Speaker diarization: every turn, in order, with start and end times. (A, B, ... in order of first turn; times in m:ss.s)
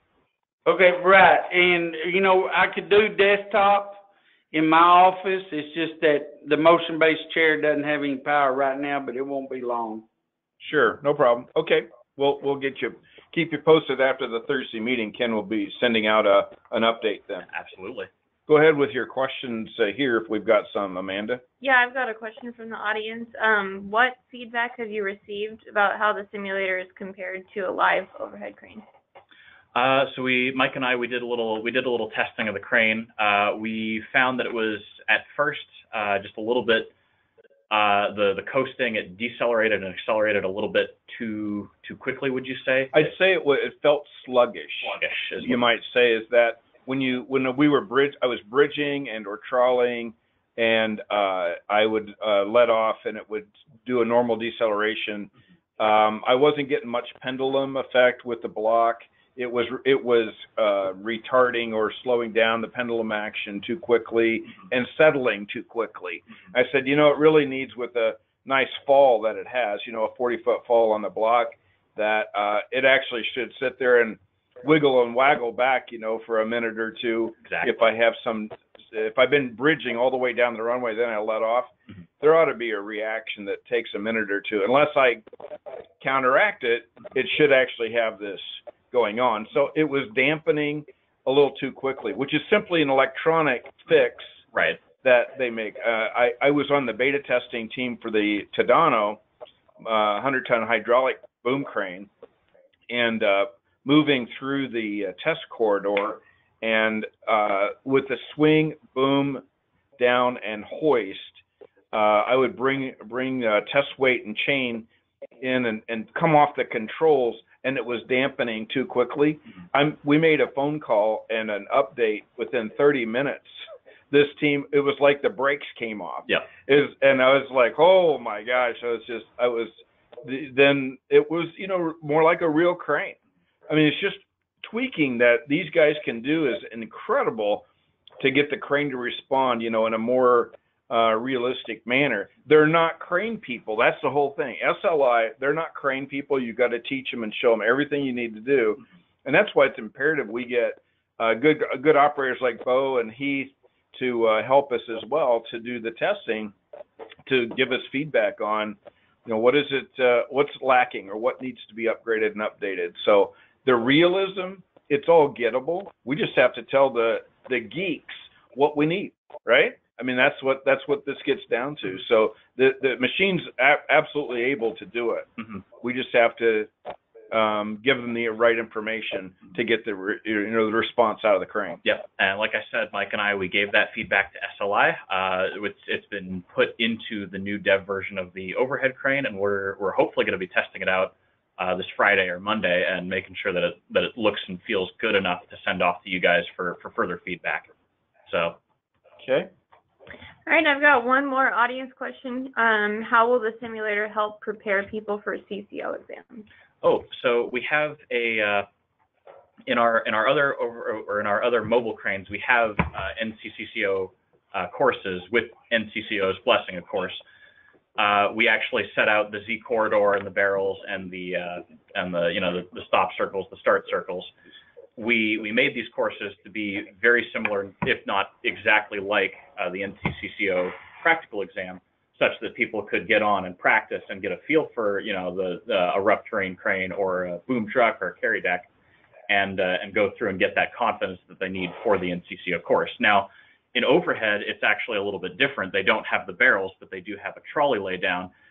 0:00.6-0:10.0 A
0:10.6-0:17.4 B
0:17.5-0:18.1 C
0:18.5-0:21.4 B
0:21.6-0:28.8 D
0:29.7-0:36.9 C
0:37.7-0:43.1 C
0:42.9-1:25.2 B
0:44.9-0:45.6 C
1:17.4-1:17.8 C
1:26.0-1:34.4 B
1:35.0-1:39.2 B
1:39.8-1:42.1 B
1:42.9-1:49.4 B
1:50.0-1:54.8 B
1:55.4-2:13.2 B
2:13.7-2:17.6 B
2:18.2-2:36.5 B
2:37.2-2:55.3 B
2:55.8-2:56.7 B
2:57.3-3:01.8 B
3:01.8-3:17.7 C
3:18.2-3:18.6 C
3:19.2-3:19.5 B
3:20.4-3:26.4 D
3:26.8-3:28.6 C
3:29.7-3:37.2 C
3:38.0-3:44.3 C
3:45.0-3:58.7 C
3:59.3-4:08.3 C